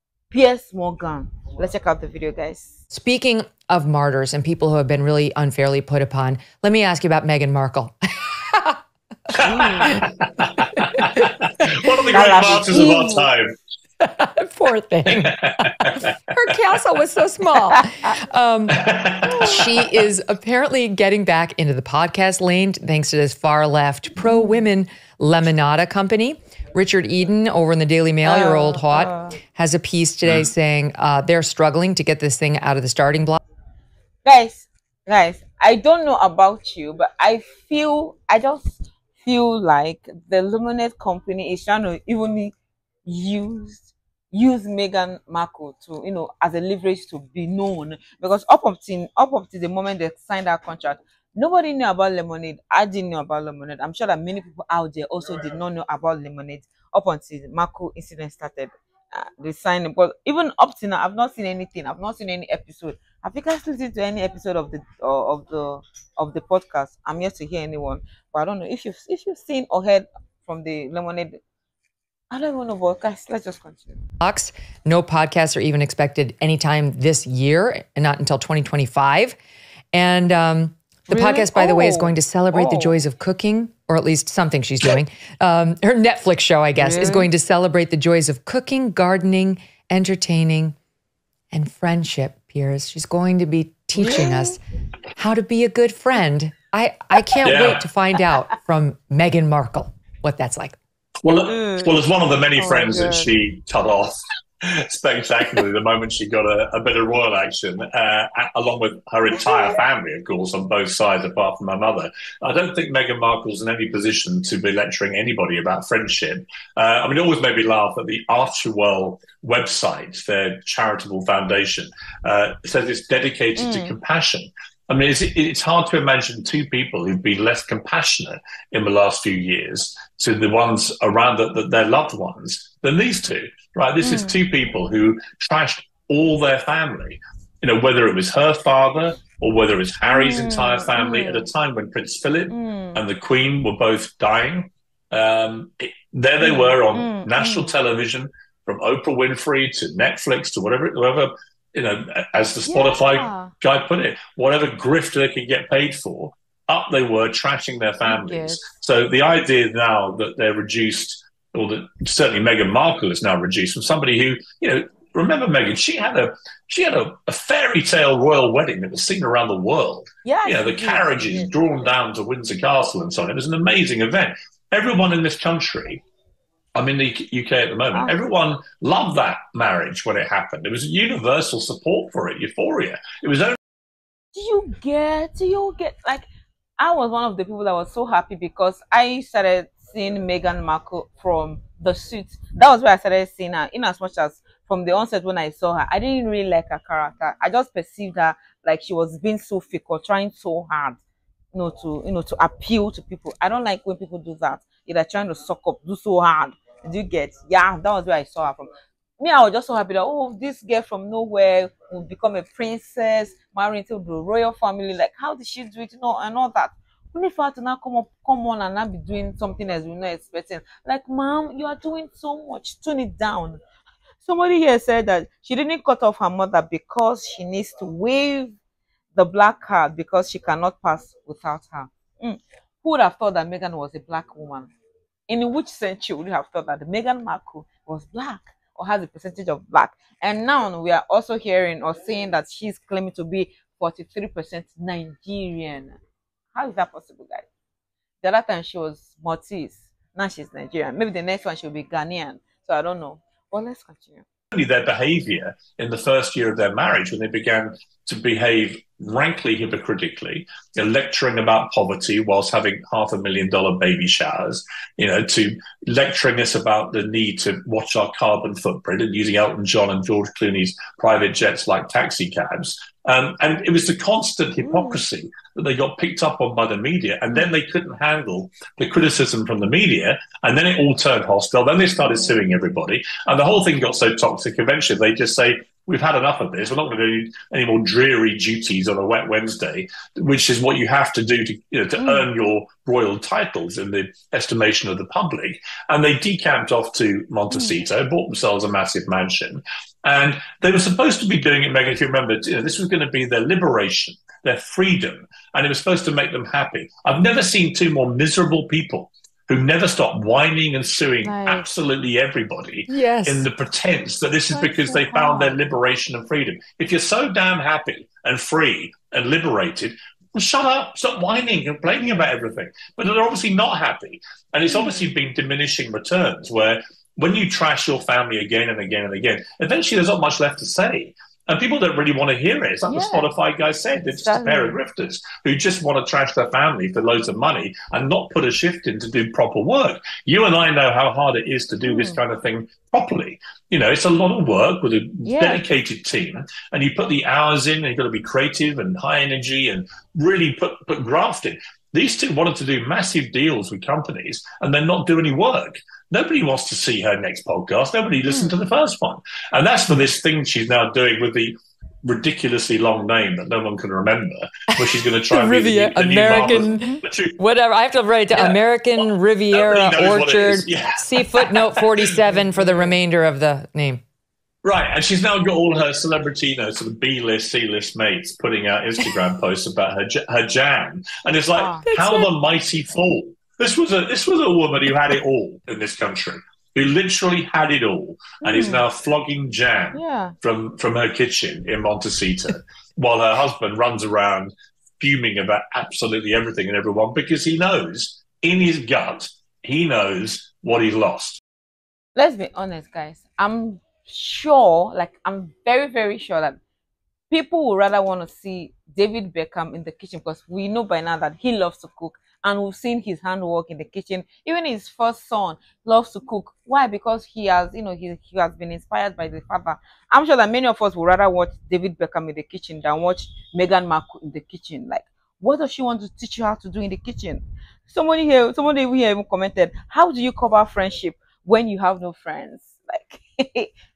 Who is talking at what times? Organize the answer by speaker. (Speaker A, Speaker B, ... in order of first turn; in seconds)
Speaker A: 0.3-2.8, 9.4-9.9, 12.1-13.3, 19.3-19.6, 24.2-24.6, 28.2-29.4, 34.2-42.5, 43.0-71.4, 72.3-74.0, 81.1-83.0, 86.8-87.3, 94.0-94.6, 101.5-103.3, 123.6-124.0, 134.0-134.4, 140.1-141.5, 142.5-143.0, 146.4-147.7, 152.7-153.5, 158.1-158.6, 170.2-171.9, 177.9-178.2, 184.3-186.3, 186.8-201.0, 201.5-223.6, 224.2-228.6, 229.1-234.7, 235.3-246.0, 246.5-247.5, 248.2-254.2, 274.6-275.0, 282.1-282.4, 292.0-292.3, 297.5-297.8, 311.2-311.7, 314.5-315.6, 324.7-325.1, 332.9-333.3, 334.1-334.8, 341.8-342.2, 345.2-345.6, 358.3-358.6, 366.3-367.0, 372.3-373.0, 381.5-381.9, 388.4-388.8, 389.9-390.4, 402.1-406.6, 407.3-433.7
Speaker B: 2.9-8.8, 10.8-11.2, 14.0-18.9, 19.4-33.4, 74.2-79.4, 79.9-90.8, 91.5-94.6, 95.2-100.8, 312.9-313.5, 364.7-374.0, 381.9-382.3
Speaker C: 9.3-13.5, 15.1-16.1, 18.7-20.0, 30.2-30.5, 97.4-97.9, 101.2-176.0, 176.8-183.6, 254.5-367.4, 368.4-372.1, 374.6-401.4